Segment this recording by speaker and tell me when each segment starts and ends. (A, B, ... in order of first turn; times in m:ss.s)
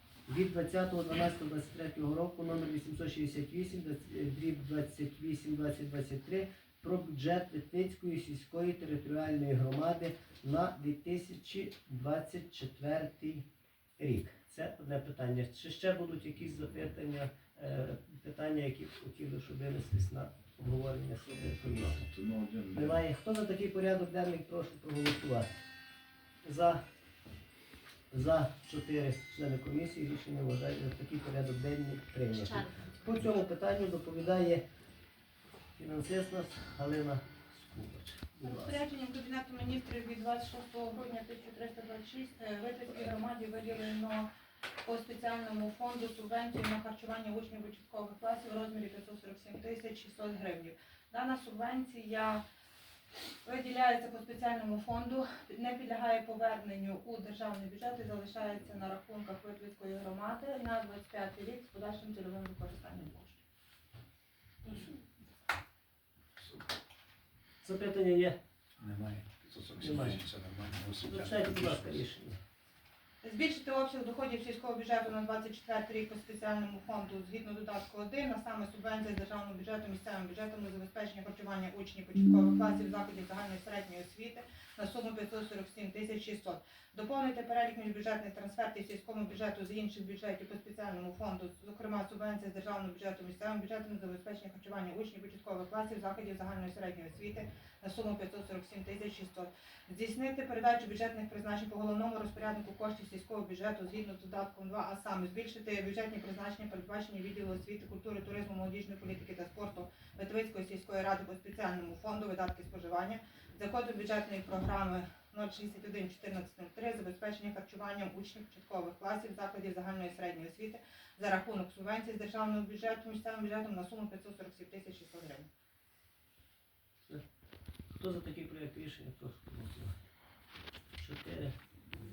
0:00.2-0:13.5 A
0:14.0-0:22.1 A
0:21.4-0:23.0 B
0:22.7-0:25.5 A
0:26.4-0:26.8 A
0:28.1-0:34.6 A
0:35.8-0:38.8 A
0:38.4-0:44.3 C
0:44.8-0:52.4 C
0:53.4-1:03.4 C
1:04.6-1:05.0 C
1:07.6-1:08.4 A
1:08.8-1:12.0 B
1:09.8-1:10.3 A
1:11.0-1:12.4 A
1:13.2-2:05.5 C
2:08.0-2:10.0 A
2:11.0-2:11.5 A